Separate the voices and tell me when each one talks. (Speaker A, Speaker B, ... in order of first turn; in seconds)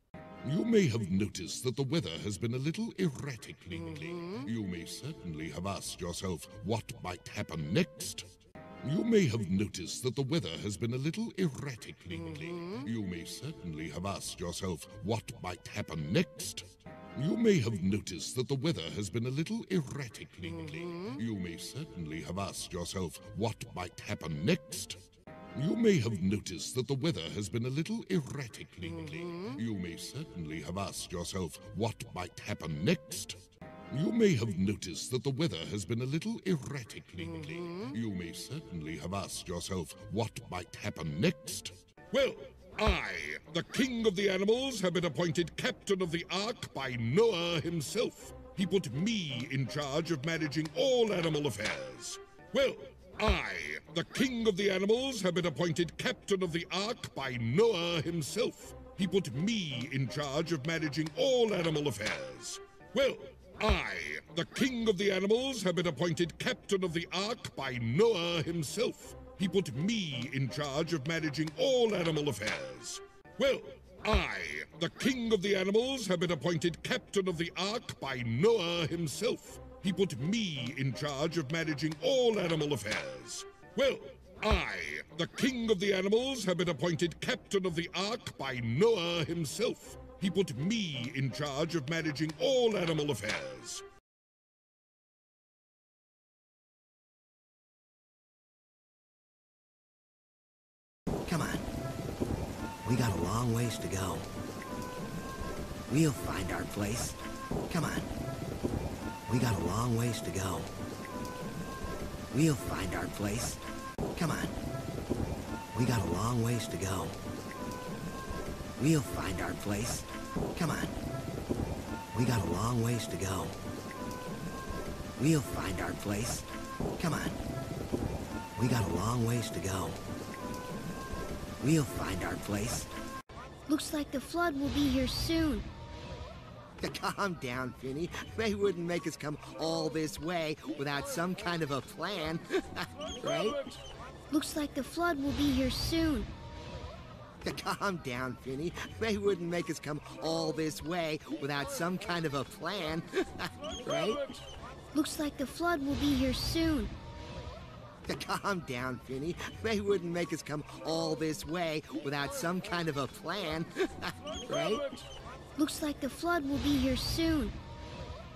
Speaker A: 0.4-8.3, 8.8-25.0, 25.5-93.8
Speaker B: 101.3-101.7, 102.8-104.3, 105.9-108.1, 109.3-110.7, 112.3-113.6, 114.2-114.5, 115.7-117.2, 118.8-121.0, 122.1-123.6, 125.2-127.4, 128.6-130.0, 131.6-132.9, 136.8-142.9, 147.4-154.2, 158.1-164.1
Speaker C: 133.7-135.7, 143.2-143.7, 144.3-146.3, 154.9-156.9, 164.5-165.0, 165.6-167.6